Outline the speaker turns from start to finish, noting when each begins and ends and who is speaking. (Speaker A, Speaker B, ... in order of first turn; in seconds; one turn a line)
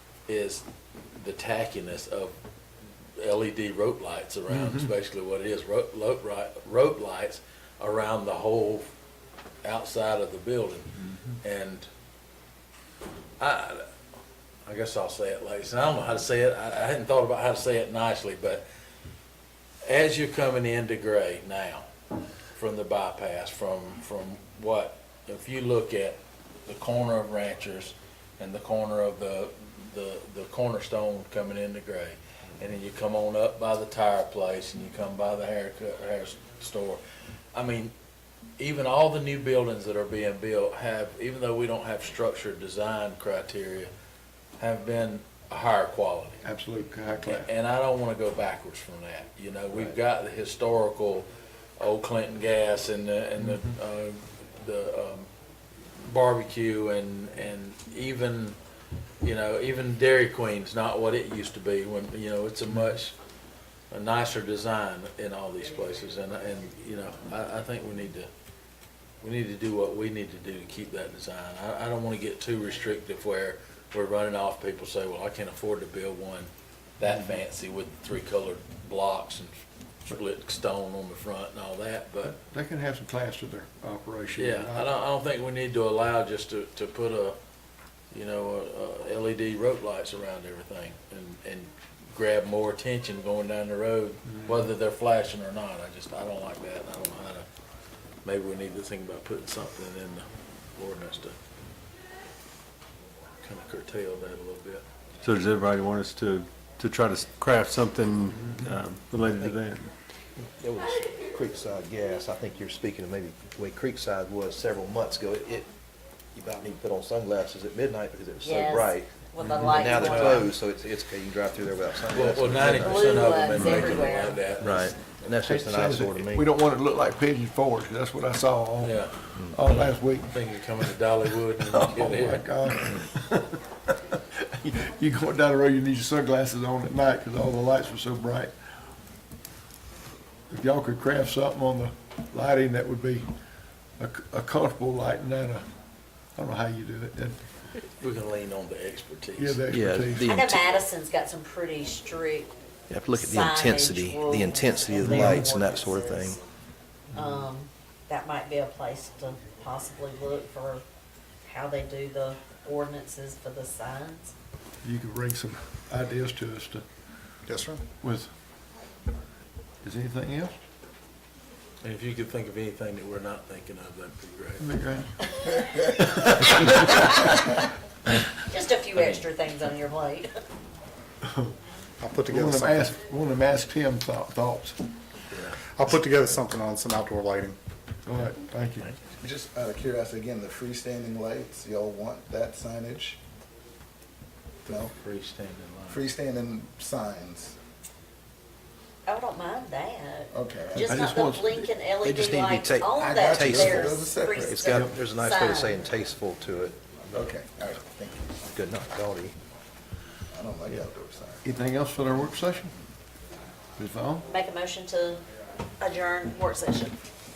Speaker A: 0.3-2.4
Speaker A: 3.2-8.8
Speaker B: 4.5-4.9
Speaker A: 9.6-11.9
Speaker A: 13.4-13.9
Speaker A: 14.7-18.6
Speaker A: 19.8-21.9
Speaker A: 22.6-37.0
Speaker A: 37.5-37.9
Speaker A: 38.6-43.9
Speaker A: 44.6-46.4
Speaker B: 46.4-47.5
Speaker A: 47.2-51.3
Speaker A: 51.8-55.3
Speaker A: 56.0-58.5
Speaker A: 59.2-63.1
Speaker A: 63.9-68.3
Speaker A: 69.2-82.4
Speaker B: 82.2-84.9
Speaker A: 84.4-87.4
Speaker A: 88.1-97.5
Speaker A: 98.2-101.4
Speaker A: 103.4-104.8
Speaker C: 105.2-109.9
Speaker D: 110.4-115.7
Speaker D: 116.3-119.1
Speaker E: 118.4-120.5
Speaker D: 119.6-123.9
Speaker A: 119.9-120.5
Speaker A: 122.1-124.9
Speaker E: 122.6-124.4
Speaker D: 124.6-126.5
Speaker B: 125.4-130.3
Speaker A: 128.8-132.5
Speaker B: 131.8-138.5
Speaker D: 132.7-133.0
Speaker B: 140.5-143.3
Speaker B: 144.0-145.7
Speaker B: 146.3-147.4
Speaker A: 148.0-149.6
Speaker B: 149.4-150.3
Speaker D: 149.7-150.6
Speaker E: 150.2-152.5
Speaker D: 152.9-156.4
Speaker E: 153.1-156.4
Speaker B: 155.0-155.4
Speaker E: 157.1-160.8
Speaker E: 161.4-164.3
Speaker B: 164.8-166.8
Speaker F: 167.5-167.8
Speaker B: 168.0-168.3
Speaker B: 169.8-170.5
Speaker A: 171.8-174.7
Speaker B: 174.6-175.1
Speaker B: 175.9-176.7
Speaker E: 176.8-177.4
Speaker E: 178.5-180.3
Speaker B: 181.2-181.5
Speaker F: 182.0-182.9
Speaker B: 182.3-184.8
Speaker A: 185.3-185.6
Speaker F: 185.6-187.6
Speaker B: 188.1-188.9
Speaker G: 189.2-193.2
Speaker G: 194.7-194.9
Speaker A: 194.7-196.0
Speaker G: 195.9-197.6
Speaker E: 199.1-205.8
Speaker G: 200.3-201.0
Speaker B: 200.8-201.7
Speaker D: 202.0-203.8
Speaker G: 202.9-204.7
Speaker D: 204.4-207.3
Speaker G: 207.1-208.6
Speaker D: 208.5-209.3
Speaker G: 210.3-211.4
Speaker B: 211.4-212.7
Speaker B: 213.8-214.2
Speaker E: 214.3-215.2
Speaker E: 215.8-216.9